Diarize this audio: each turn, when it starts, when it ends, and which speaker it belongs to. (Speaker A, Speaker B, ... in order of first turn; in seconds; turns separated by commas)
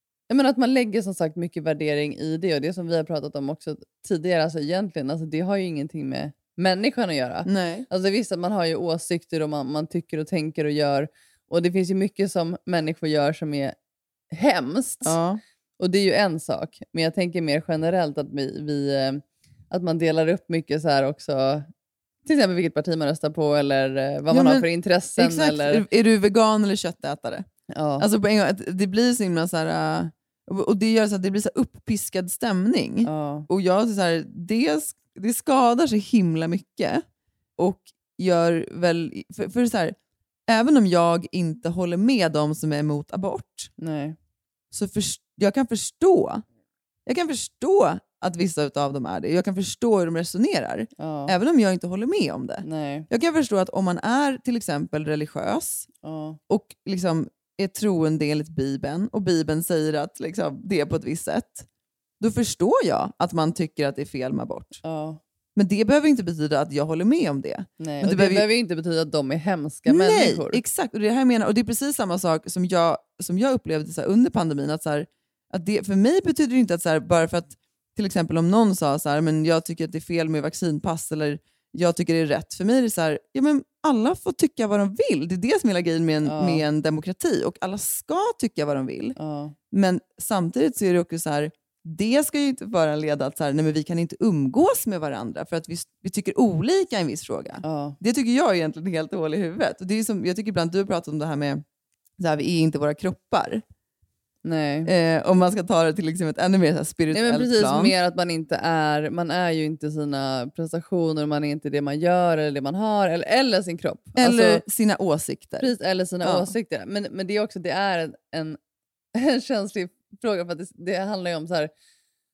Speaker A: 0.3-13.8, Speaker B: 7.5-7.9, Speaker A: 14.3-15.2, Speaker B: 15.0-15.4, Speaker A: 15.8-21.7, Speaker A: 22.3-25.8, Speaker B: 24.3-27.5, Speaker A: 27.7-28.1, Speaker B: 28.0-37.0, Speaker A: 33.0-33.5, Speaker B: 37.6-40.0, Speaker B: 40.5-43.7, Speaker A: 43.8-44.2, Speaker B: 44.7-46.4, Speaker B: 47.1-55.9, Speaker A: 51.0-51.3, Speaker A: 52.6-53.1, Speaker A: 56.0-56.4, Speaker B: 56.5-61.7, Speaker B: 62.2-64.8, Speaker A: 64.8-65.2, Speaker B: 65.5-68.5, Speaker A: 67.8-70.6, Speaker B: 69.9-89.2, Speaker A: 86.2-86.6, Speaker A: 89.2-89.5, Speaker B: 89.7-101.6, Speaker A: 97.6-98.0, Speaker B: 102.2-103.6, Speaker A: 104.5-104.9, Speaker B: 104.8-107.9, Speaker A: 107.1-114.6, Speaker B: 114.2-116.5, Speaker A: 115.6-118.6, Speaker A: 119.2-121.7